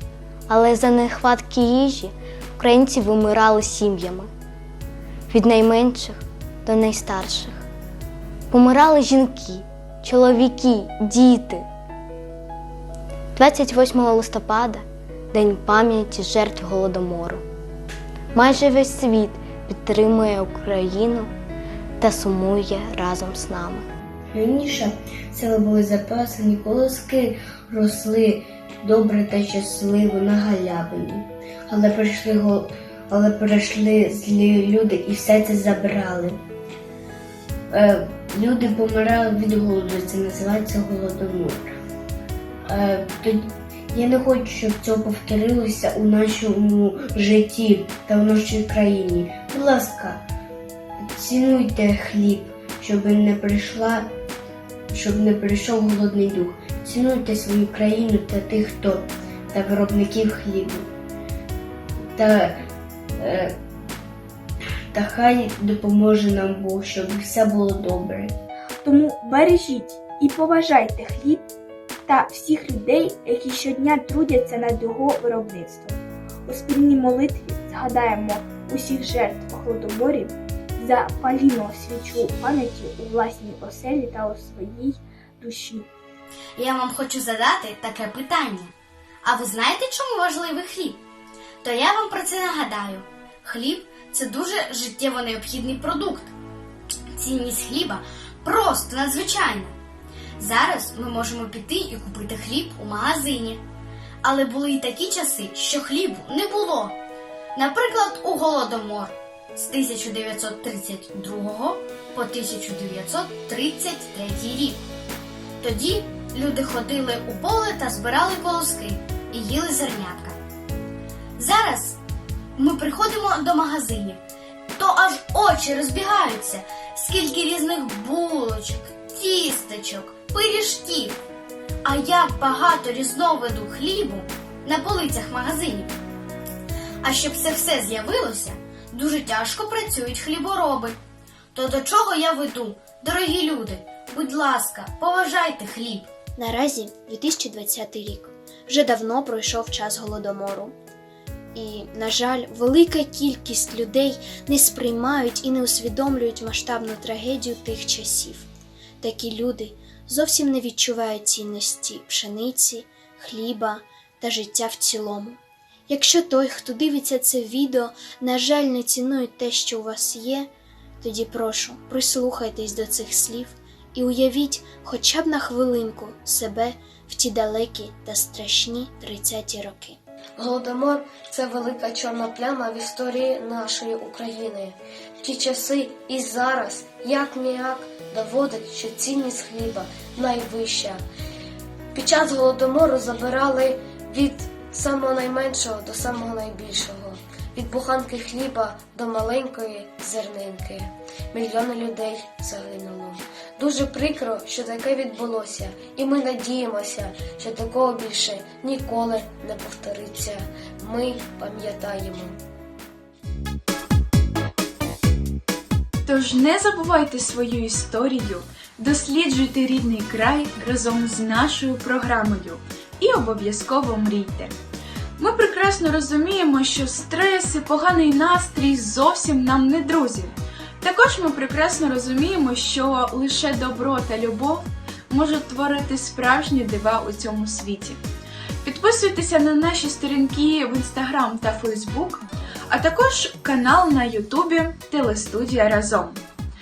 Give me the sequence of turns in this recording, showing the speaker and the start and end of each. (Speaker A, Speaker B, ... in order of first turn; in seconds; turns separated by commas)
Speaker A: 0.5-4.3, Speaker A: 5.3-7.7, Speaker A: 8.5-11.7, Speaker A: 13.4-17.4, Speaker A: 18.4-21.3, Speaker A: 22.0-23.9, Speaker B: 24.3-36.4, Speaker B: 37.7-41.6, Speaker B: 42.7-50.2, Speaker B: 51.1-54.1, Speaker B: 54.9-60.9, Speaker B: 62.2-62.6, Speaker B: 63.2-63.5, Speaker B: 64.9-68.3, Speaker C: 68.8-71.5, Speaker C: 72.1-85.9, Speaker D: 86.6-88.7, Speaker D: 89.2-91.0, Speaker D: 91.6-96.3, Speaker D: 97.2-99.7, Speaker D: 100.4-103.6, Speaker D: 104.2-107.0, Speaker D: 107.5-114.8, Speaker D: 115.6-120.4, Speaker D: 121.4-122.0, Speaker D: 122.6-124.2, Speaker D: 124.8-131.2, Speaker D: 131.8-135.9, Speaker D: 137.0-141.0, Speaker D: 141.5-146.1, Speaker E: 146.4-148.3, Speaker E: 148.8-150.7, Speaker E: 151.8-158.5, Speaker E: 159.1-162.8, Speaker E: 163.4-163.8, Speaker A: 163.4-163.7, Speaker E: 164.4-165.4, Speaker E: 166.0-170.4, Speaker A: 166.0-166.8, Speaker A: 167.3-167.7, Speaker A: 168.9-169.4, Speaker E: 171.2-173.5, Speaker E: 174.1-180.0, Speaker A: 174.8-175.8, Speaker A: 177.2-177.6, Speaker F: 180.4-191.0, Speaker F: 191.9-212.4, Speaker G: 216.1-224.6, Speaker G: 225.2-238.0, Speaker G: 238.7-246.2